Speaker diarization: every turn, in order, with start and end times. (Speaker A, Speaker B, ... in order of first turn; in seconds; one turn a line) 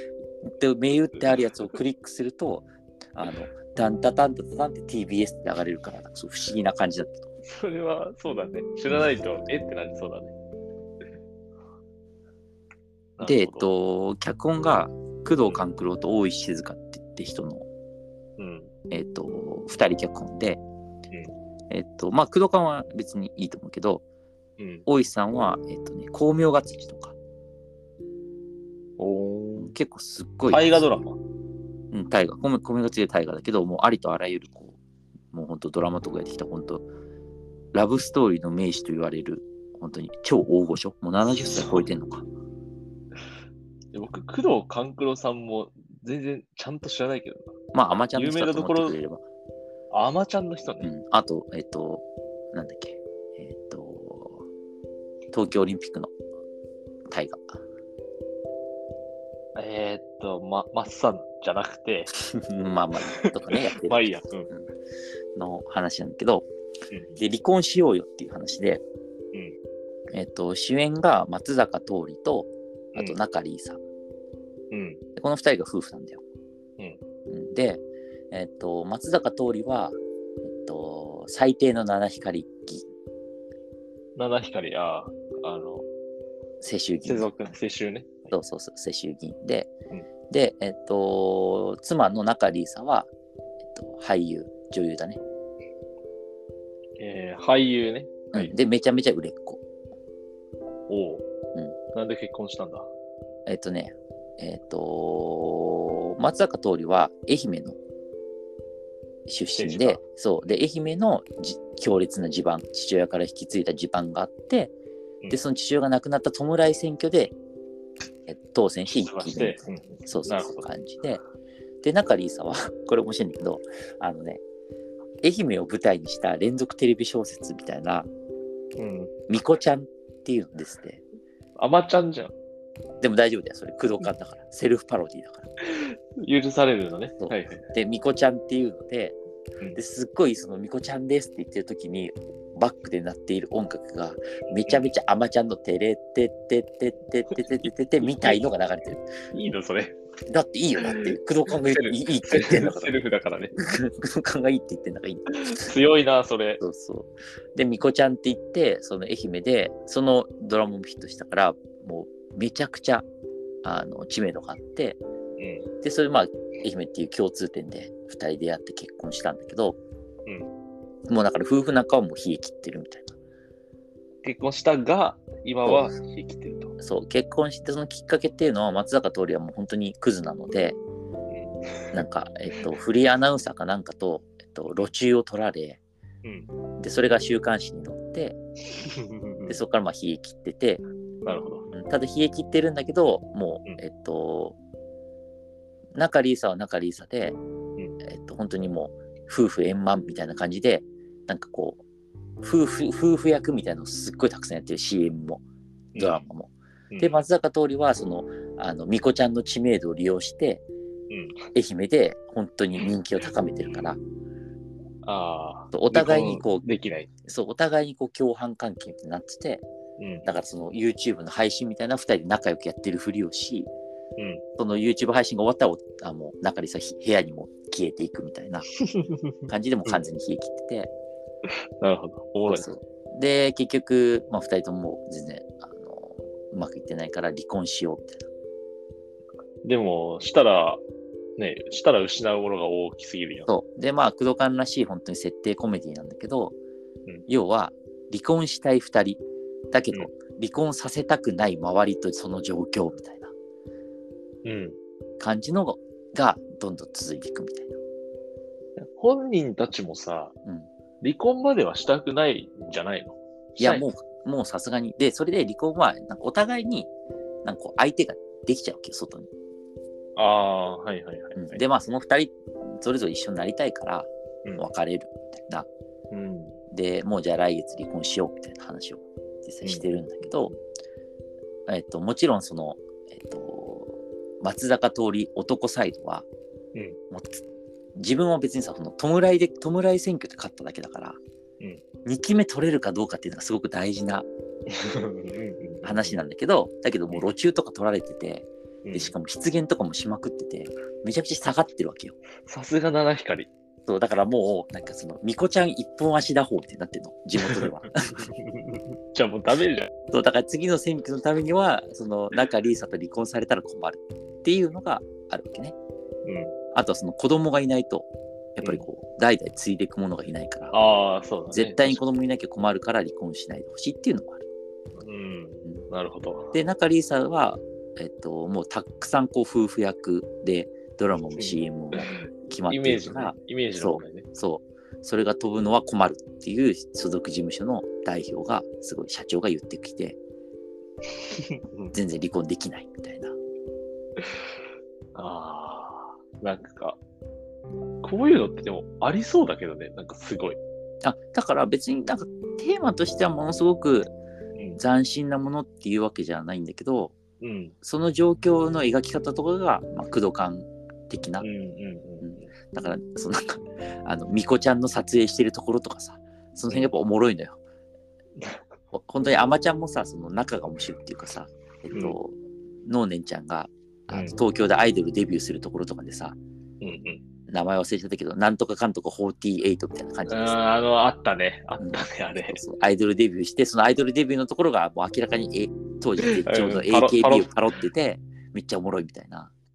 Speaker A: 0.4-7.3
Speaker B: 7.5-10.3
Speaker B: 13.2-13.7
Speaker A: 13.2-17.7
Speaker B: 18.4-18.7
Speaker A: 18.9-20.6
Speaker A: 21.7-24.0
Speaker B: 24.6-24.9
Speaker A: 24.9-27.1
Speaker B: 29.0-29.7
Speaker A: 29.6-30.7
Speaker B: 30.5-31.2
Speaker A: 31.9-34.8
Speaker A: 35.3-36.9
Speaker A: 37.7-42.2
Speaker B: 41.3-41.9
Speaker B: 43.9-47.5
Speaker A: 47.7-49.2
Speaker B: 48.1-49.0
Speaker B: 49.9-50.9
Speaker A: 50.8-54.4
Speaker A: 55.3-56.1
Speaker A: 57.1-57.6
Speaker B: 59.5-62.1
Speaker A: 62.1-64.6
Speaker B: 63.5-64.5
Speaker A: 65.3-66.5
Speaker B: 66.9-67.2
Speaker A: 67.2-68.8
Speaker A: 70.1-73.8
Speaker B: 74.7-75.0
Speaker A: 75.2-76.2
Speaker A: 77.3-80.0
Speaker A: 80.5-82.8
Speaker B: 84.2-85.8
Speaker A: 86.6-87.3
Speaker B: 87.0-88.3
Speaker A: 88.3-89.7
Speaker A: 90.3-93.1
Speaker A: 93.7-95.2
Speaker B: 97.0-98.5
Speaker A: 98.3-99.6
Speaker B: 100.9-101.2
Speaker B: 101.9-102.9
Speaker A: 103.5-107.8
Speaker A: 109.3-114.7
Speaker B: 109.6-110.0
Speaker A: 115.3-117.3
Speaker A: 118.3-121.2
Speaker B: 119.0-120.6
Speaker A: 121.8-124.4
Speaker A: 125.2-128.1
Speaker B: 128.8-129.1
Speaker A: 129.3-131.0
Speaker B: 131.6-132.3
Speaker A: 133.0-135.5
Speaker B: 135.7-137.6
Speaker A: 137.2-139.1
Speaker A: 139.7-149.0
Speaker B: 148.0-148.4
Speaker B: 149.3-149.9
Speaker A: 150.3-153.0
Speaker B: 150.8-153.5
Speaker A: 153.6-155.8
Speaker B: 155.4-156.6
Speaker A: 156.6-163.0
Speaker A: 163.6-165.0
Speaker B: 165.4-165.7
Speaker A: 165.8-169.8
Speaker A: 171.1-173.2
Speaker B: 174.2-176.7
Speaker A: 175.6-175.9
Speaker A: 176.8-180.8
Speaker B: 181.3-182.0
Speaker A: 181.9-185.8
Speaker A: 186.8-188.4
Speaker B: 188.7-189.6
Speaker A: 189.5-190.8
Speaker B: 191.2-191.7
Speaker A: 191.7-194.6
Speaker A: 195.9-197.4
Speaker A: 198.0-201.8
Speaker A: 202.4-205.4
Speaker B: 205.9-206.2
Speaker A: 206.0-210.6
Speaker B: 206.9-207.2
Speaker B: 211.1-211.4
Speaker A: 211.5-214.0
Speaker B: 215.0-217.1
Speaker A: 215.7-216.7
Speaker A: 217.3-219.6
Speaker B: 220.0-220.3
Speaker A: 220.2-223.7
Speaker B: 224.2-224.4
Speaker A: 224.6-228.7
Speaker B: 228.9-229.2
Speaker A: 229.5-230.9
Speaker B: 231.8-232.7
Speaker A: 232.5-238.3
Speaker B: 239.6-240.8
Speaker B: 241.4-243.5
Speaker A: 243.5-246.6
Speaker A: 247.3-249.2
Speaker A: 249.7-253.3
Speaker B: 254.4-254.8
Speaker A: 255.2-257.8
Speaker B: 258.8-260.3
Speaker B: 261.0-263.9
Speaker A: 263.6-266.9
Speaker A: 267.4-269.3
Speaker B: 270.1-271.6
Speaker A: 271.3-275.7
Speaker B: 276.1-276.6
Speaker A: 276.7-280.5
Speaker B: 279.6-280.6
Speaker A: 281.7-286.3
Speaker A: 287.1-287.4
Speaker A: 287.9-291.2
Speaker A: 292.0-294.2
Speaker B: 294.7-296.1
Speaker A: 295.8-302.1
Speaker B: 298.8-299.1
Speaker B: 302.4-303.5
Speaker A: 303.9-308.3
Speaker B: 307.4-309.9
Speaker A: 310.1-315.7
Speaker B: 316.2-316.5
Speaker A: 316.7-320.7
Speaker B: 320.7-322.0
Speaker A: 321.5-324.4
Speaker B: 325.0-326.5
Speaker A: 326.5-340.2
Speaker B: 331.4-334.2
Speaker B: 341.3-341.9
Speaker A: 341.9-343.4
Speaker B: 345.1-347.0
Speaker B: 348.0-350.6
Speaker A: 351.0-354.1
Speaker A: 354.8-357.1
Speaker B: 357.4-357.7
Speaker A: 357.8-361.4
Speaker B: 361.4-362.5
Speaker A: 362.2-367.6
Speaker A: 368.9-376.4
Speaker B: 374.1-374.4
Speaker B: 376.8-377.2
Speaker A: 377.5-380.6
Speaker B: 380.3-382.6
Speaker A: 381.8-389.5
Speaker B: 386.2-387.5